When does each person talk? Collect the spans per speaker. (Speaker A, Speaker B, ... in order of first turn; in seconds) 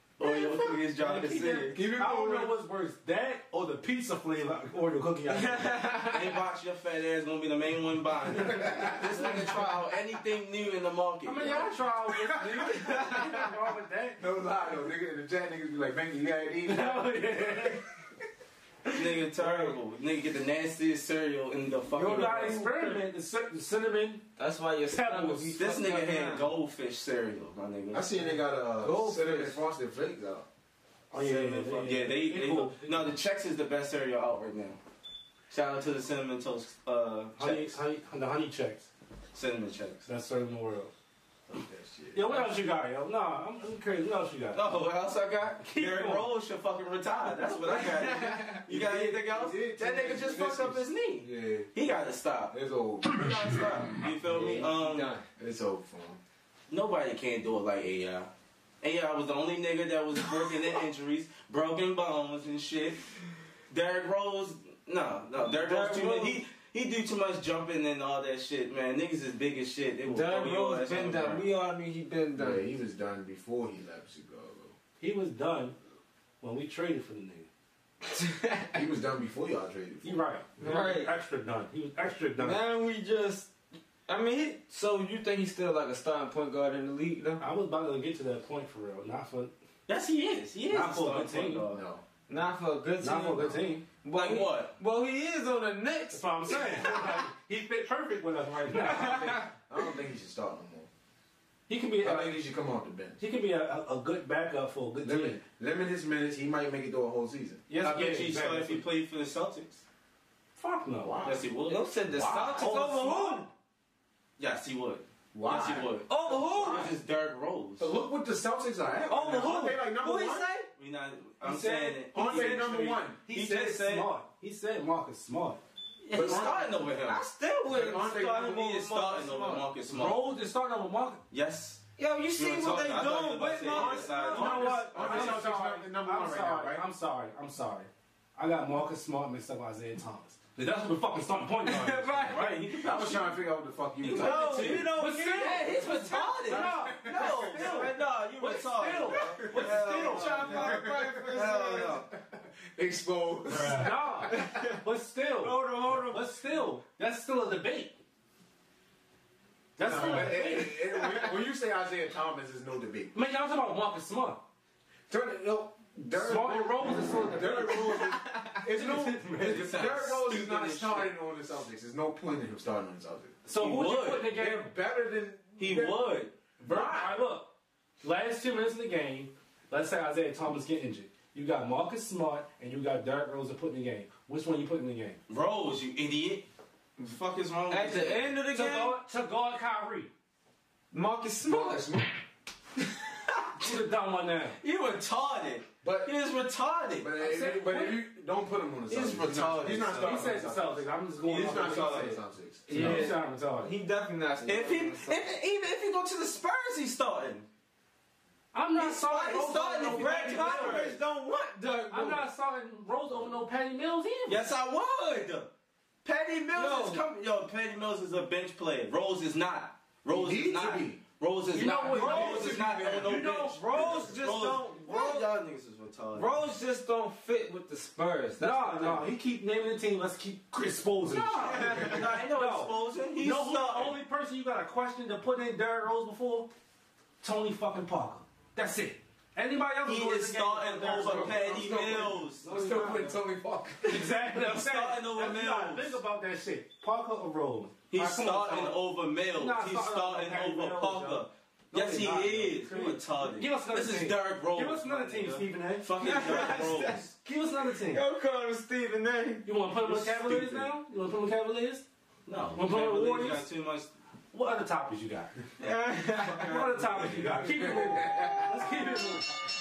Speaker A: 0.2-1.8, 6.0-11.8, 18.9-23.0, 25.5-28.3, 31.1-34.8, 35.5-37.8, 39.3-40.0, 44.5-55.1, 56.7-58.3, 58.8-63.1, 63.7-71.5, 89.9-91.8, 94.1-94.7, 107.8-109.8, 111.2-111.9, 114.4-118.0, 120.7-124.1, 126.1-130.3, 131.3-131.8, 132.3-135.4, 141.7-143.4, 144.0-152.1, 169.3-171.1, 173.6-174.3, 175.6-176.3, 185.3-186.4, 187.0-188.3, 194.6-197.1, 198.9-200.2, 201.2-202.2, 204.4-207.4, 208.7-211.0, 214.3-215.5, 216.0-226.5, 231.0-233.9, 239.8-242.5, 244.5-246.0, 247.9-257.1, 259.9-260.7, 262.2-263.9, 266.2-267.4
Speaker B: 0.2-5.8, 11.2-14.2, 16.7-17.8, 21.9-24.3, 24.9-25.5, 31.1-33.1, 37.4-38.9, 40.0-40.9, 42.1-44.6, 45.6-46.3, 75.0-75.8, 76.4-77.5, 80.0-82.6, 87.4-89.5, 90.7-91.7, 93.0-93.8, 96.1-99.5, 101.7-102.4, 103.2-105.4, 107.8-108.8, 110.5-111.3, 112.6-113.5, 121.4-125.6, 129.8-131.2, 134.1-142.6, 144.9-150.4, 153.6-157.9, 159.8-160.8, 163.1-164.4, 166.1-168.1, 168.7-169.6, 173.4-174.7, 176.6-185.2, 188.5-190.1, 193.6-194.6, 197.2-198.0, 200.0-202.2, 202.7-203.7, 208.5-210.9, 211.9-214.4, 221.5-223.6, 228.4-236.5, 237.2-241.6, 242.4-243.2, 243.8-248.8, 249.3-258.0, 259.4-261.9, 262.6-263.4, 264.3-265.3, 266.4-269.4
Speaker C: 1.7-2.5, 14.2-17.7, 22.1-22.7, 27.9-30.5, 41.5-42.3, 48.5-51.7, 52.5-53.7, 55.4-56.2, 72.3-74.7, 78.7-80.3, 91.7-92.0, 99.7-100.9, 102.0-103.2, 105.0-107.6, 111.0-111.4, 112.1-112.8, 115.3-115.9, 116.5-116.9, 117.8-120.5, 122.1-123.2, 126.1-126.6, 127.7-128.8, 133.7-136.8, 142.8-144.8, 146.5-147.7, 149.4-154.5, 159.8-163.2, 165.1-173.3, 174.2-176.0, 176.6-177.2, 191.4-192.2, 195.8-196.1, 197.0-203.2, 220.1-221.0, 221.6-223.3, 223.8-224.0, 240.9-244.1, 267.5-268.5
Speaker D: 5.3-6.2, 13.0-13.3, 24.4-26.5, 28.8-29.6, 48.0-48.4, 54.3-55.2, 65.3-66.4, 70.0-72.7, 78.2-78.7, 80.6-81.1, 82.4-83.5, 84.0-87.4, 92.3-97.1, 98.8-99.3, 107.7-108.1, 111.6-113.5, 116.1-116.9, 119.1-120.7, 126.0-129.6, 132.0-134.6, 141.7-142.7, 144.1-146.7, 149.5-151.9, 154.3-154.8, 155.4-156.3, 187.7-189.0, 190.9-191.9, 199.1-199.8, 202.7-205.2, 209.4-212.2, 216.5-217.0, 223.6-225.3, 226.1-229.1, 256.0-257.0, 257.6-259.5, 265.6-266.6